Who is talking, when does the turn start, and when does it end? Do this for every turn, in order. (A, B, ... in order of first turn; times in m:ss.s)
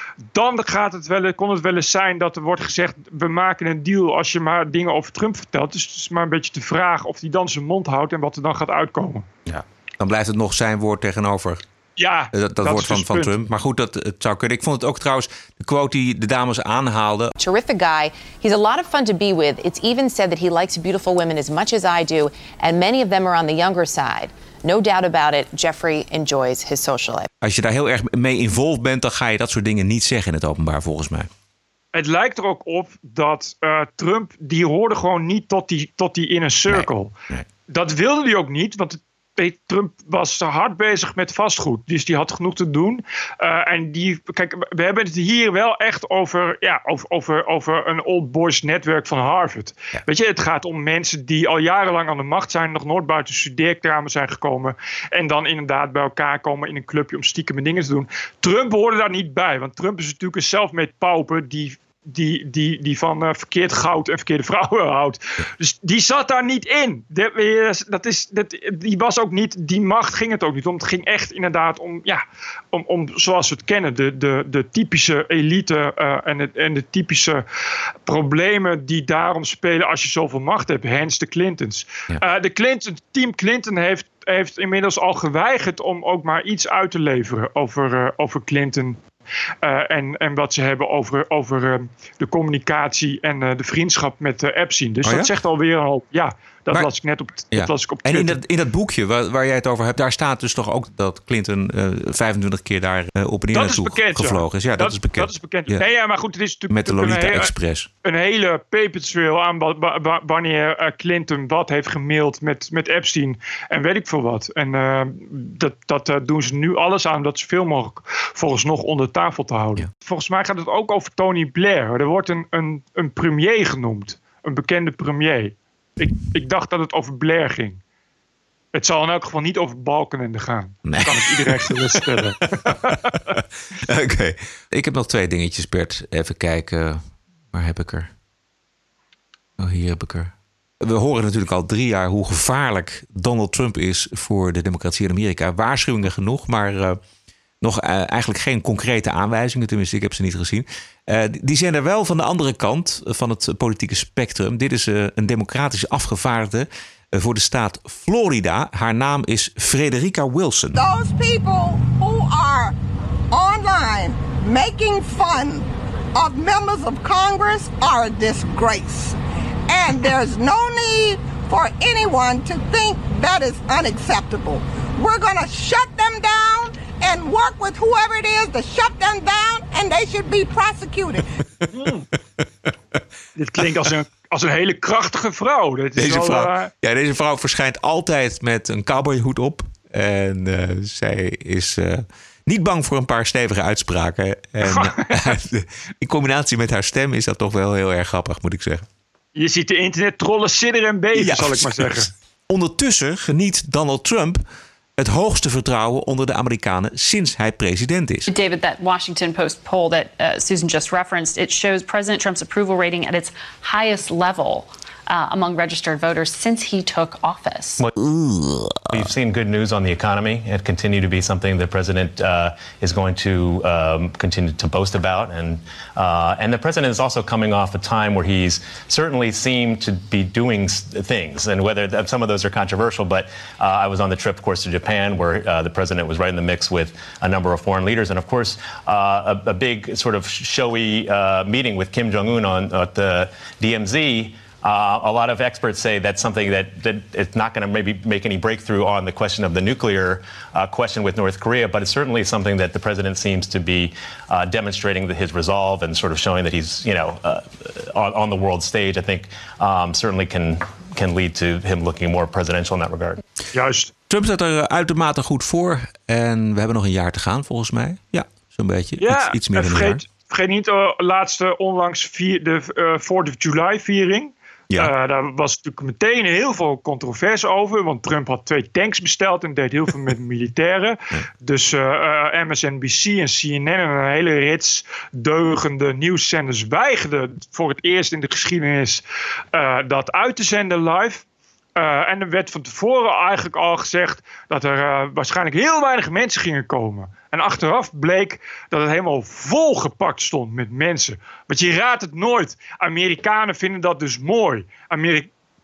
0:00.3-0:09.3 A
0:09.5-0:11.6 B
0:12.0-0:13.3 A
0:12.3-0:17.3 B
0:17.4-0:27.3 C
0:27.4-0:31.3 B
0:31.9-0:37.1 A
0:36.7-0:37.4 B
0:37.7-1:17.4 A
1:18.0-1:29.0 A
1:29.6-1:38.4 A
1:35.0-1:35.3 B
1:37.5-1:45.8 B
1:43.5-1:47.5 A
1:46.7-1:47.9 B
1:48.0-2:07.8 A
2:08.7-2:13.0 A
2:10.8-2:12.0 B
2:12.7-2:13.2 B
2:13.9-2:18.1 B
2:19.6-2:27.0 B
2:27.6-2:40.8 B
2:40.7-2:42.7 D
2:43.3-2:49.2 D
2:49.7-3:01.2 D
3:01.7-3:02.1 A
3:03.4-3:06.7 A
3:06.0-3:18.8 B
3:14.6-3:15.3 A
3:19.3-3:22.1 A
3:21.1-3:24.4 B
3:25.0-3:28.3 B
3:28.3-3:37.8 E
3:38.0-3:38.9 B
3:38.9-4:23.2 F
4:23.5-4:23.9 A
4:24.1-4:30.0 B
4:29.0-4:51.2 A
4:51.7-5:05.3 A